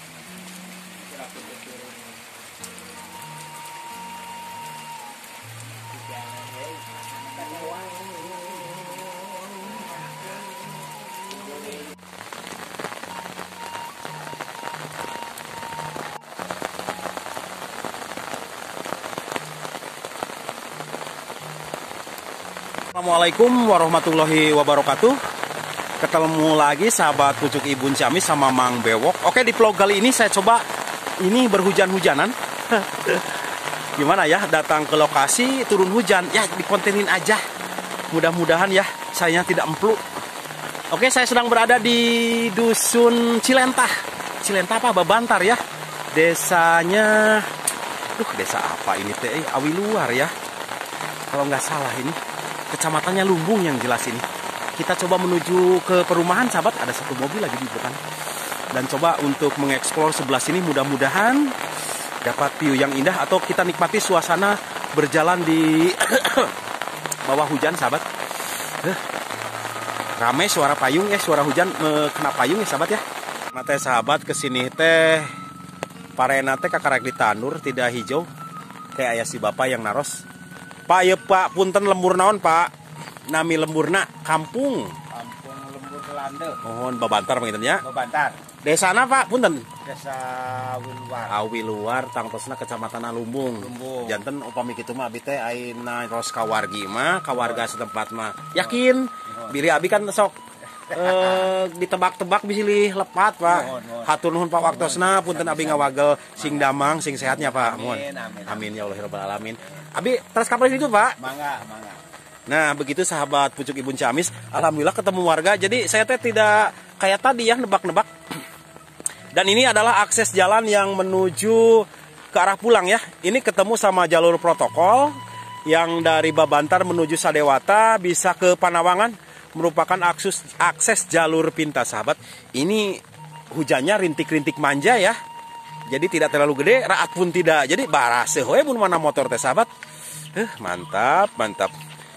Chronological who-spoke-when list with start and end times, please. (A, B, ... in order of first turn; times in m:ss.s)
0:01.2-0:01.7 A
0:06.2-0:06.5 A
0:07.5-0:07.8 A
0:22.9-0:25.2 B
0:26.0-0:30.6 B
0:31.2-0:33.4 B
0:34.0-0:37.4 B
0:38.1-0:40.0 B
0:40.9-0:45.6 B
0:46.1-0:47.5 B
0:48.2-0:50.3 B
0:51.3-0:52.2 B
0:52.7-0:54.2 B
0:54.8-0:58.0 B
0:58.7-1:01.6 B
1:02.2-1:06.5 B
1:07.2-1:08.0 B
1:08.7-1:09.0 B
1:10.2-1:15.4 B
1:16.2-1:18.3 B
1:19.0-1:20.2 B
1:20.9-1:22.7 B
1:23.3-1:25.0 B
1:25.1-1:26.6 A
1:26.6-1:27.8 B
1:27.8-1:28.4 A
1:28.6-1:29.7 B
1:29.8-1:31.4 A
1:31.3-1:40.4 B
1:33.6-1:34.2 A
1:40.9-1:51.2 B
1:40.9-1:41.5 A
1:43.5-1:46.7 A
1:47.3-1:48.7 A
1:51.2-1:52.0 A
1:52.5-1:58.4 B
1:59.3-2:15.2 B
2:15.9-2:19.7 B
2:20.3-2:21.8 B